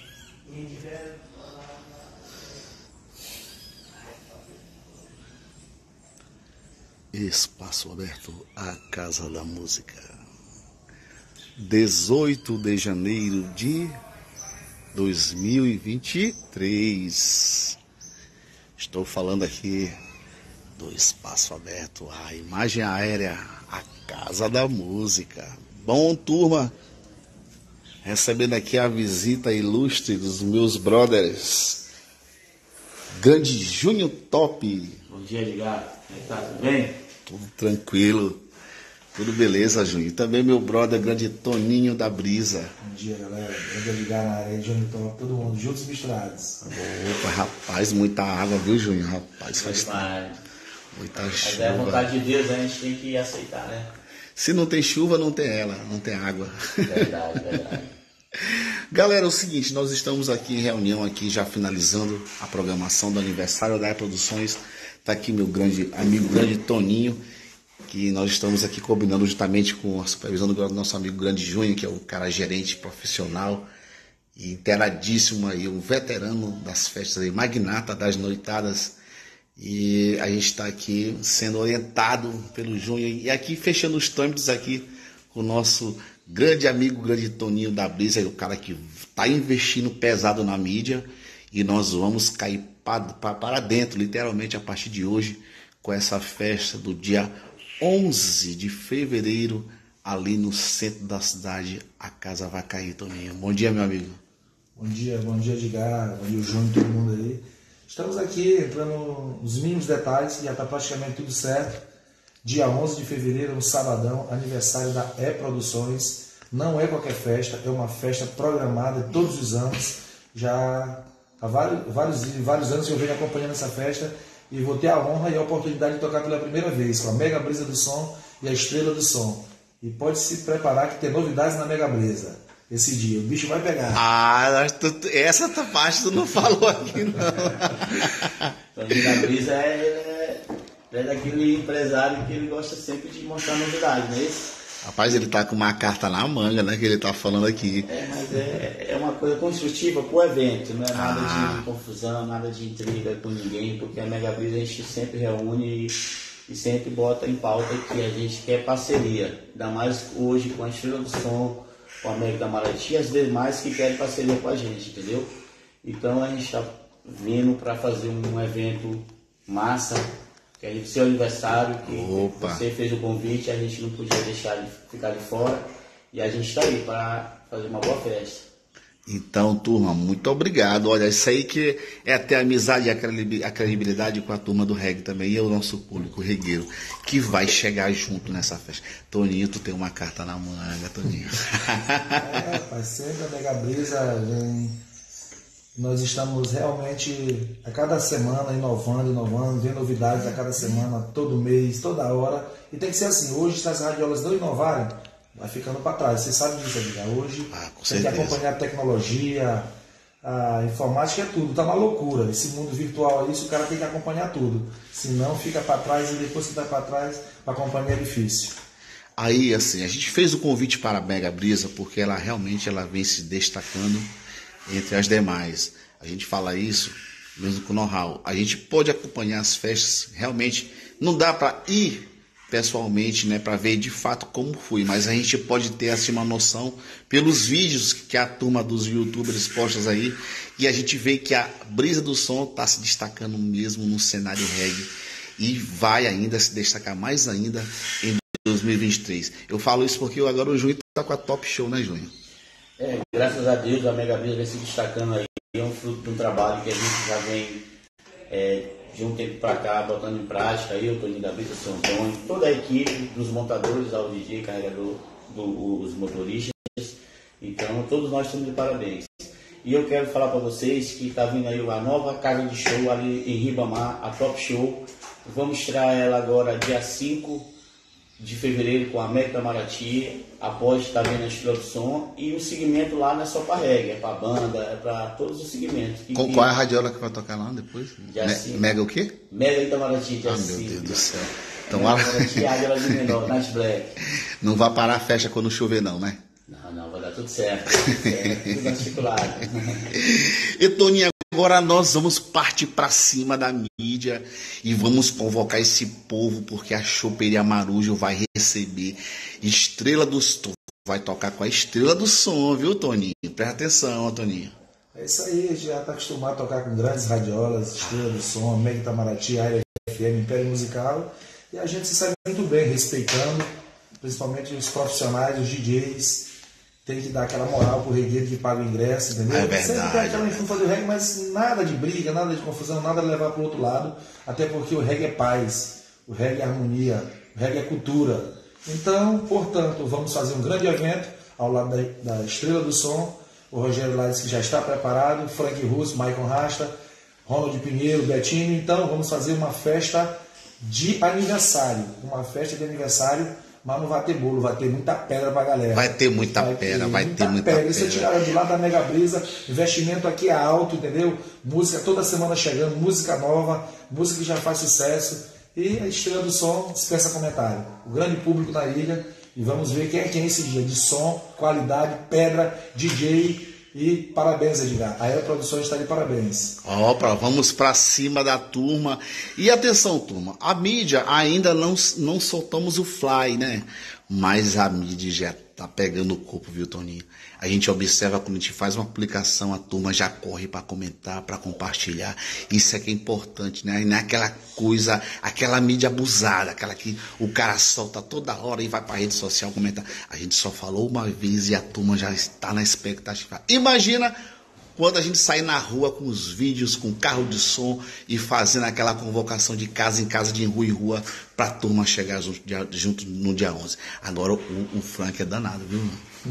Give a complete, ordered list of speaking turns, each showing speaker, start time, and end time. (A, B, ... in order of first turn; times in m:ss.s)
0:00.5-0:01.2 A
0:07.1-0:10.1 B
0:11.6-0:14.0 B
0:14.9-0:17.8 B
0:18.8-0:20.0 B
0:20.8-0:26.7 B
0:28.0-0:31.8 B
0:33.2-0:35.0 B
0:35.1-0:37.0 A
0:37.2-0:38.4 B
0:39.1-0:42.7 B
0:42.8-0:46.6 C
0:46.6-0:50.1 B
0:49.6-0:50.4 A
0:50.9-0:52.1 B
0:51.2-0:53.9 A
0:54.4-0:57.6 B
0:56.8-0:57.9 A
0:58.4-1:07.2 B
1:07.9-1:13.7 B
1:14.4-1:19.0 B
1:19.6-1:44.2 B
1:44.8-1:51.8 C
1:52.4-2:14.0 C
2:13.9-2:19.2 B
2:18.7-2:24.5 A
2:24.8-2:27.9 B
2:27.8-2:45.3 A
2:30.9-2:31.6 B
2:45.8-2:58.5 A
2:51.8-2:52.6 B
2:59.1-3:12.4 B
3:12.2-3:14.8 C
3:15.7-3:29.7 C
3:27.5-3:28.4 B
3:30.2-3:38.6 C
3:39.2-3:44.1 B
3:44.7-4:12.1 B
4:12.8-4:17.6 A
4:18.3-4:37.5 A
4:38.2-4:46.5 A
4:46.1-4:49.2 B
4:48.0-4:48.7 A
4:49.3-4:51.2 A
4:50.2-4:53.1 B
4:51.7-4:54.0 A
4:54.4-4:56.2 B
4:56.5-4:59.9 A
4:57.8-4:58.6 B
4:59.9-5:14.5 B
5:14.9-5:23.5 C
5:24.0-5:26.3 C
5:26.8-5:46.7 C
5:29.3-5:30.6 B
5:47.2-6:16.6 C
5:55.7-5:58.1 B
6:16.6-6:44.2 B
6:44.8-6:56.0 B